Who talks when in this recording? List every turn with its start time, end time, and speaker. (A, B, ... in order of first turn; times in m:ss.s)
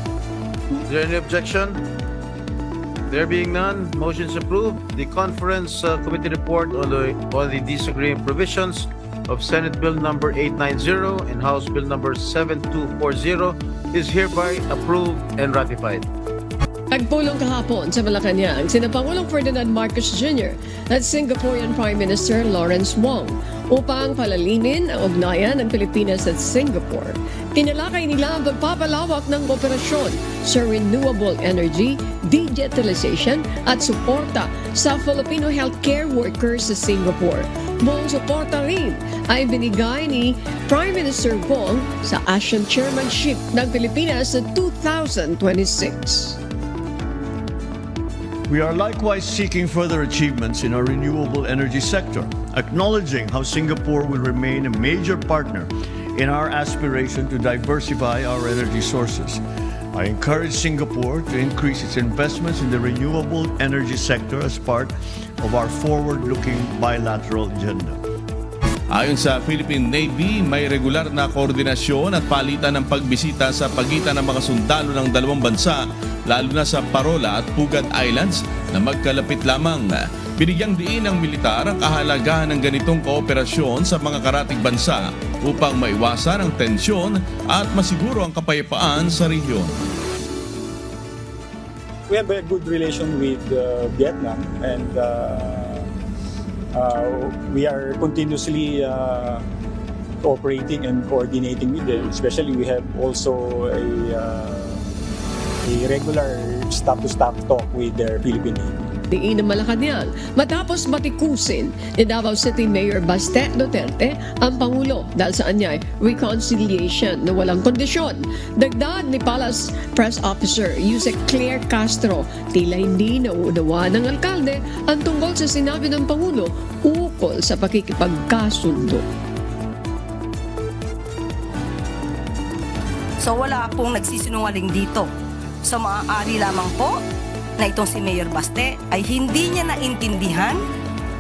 0:00.9-0:01.8 A
0:03.1-0:16.0 A
0:16.9-0:46.4 B
0:48.5-0:59.4 C
0:59.9-1:08.0 C
1:08.9-1:29.7 D
1:32.1-1:35.8 E
1:36.7-1:39.4 E
1:40.2-1:44.8 E
1:45.6-1:48.7 E
1:49.1-2:09.0 B
2:13.2-2:15.1 F
2:15.6-2:17.0 F
2:17.6-2:20.6 F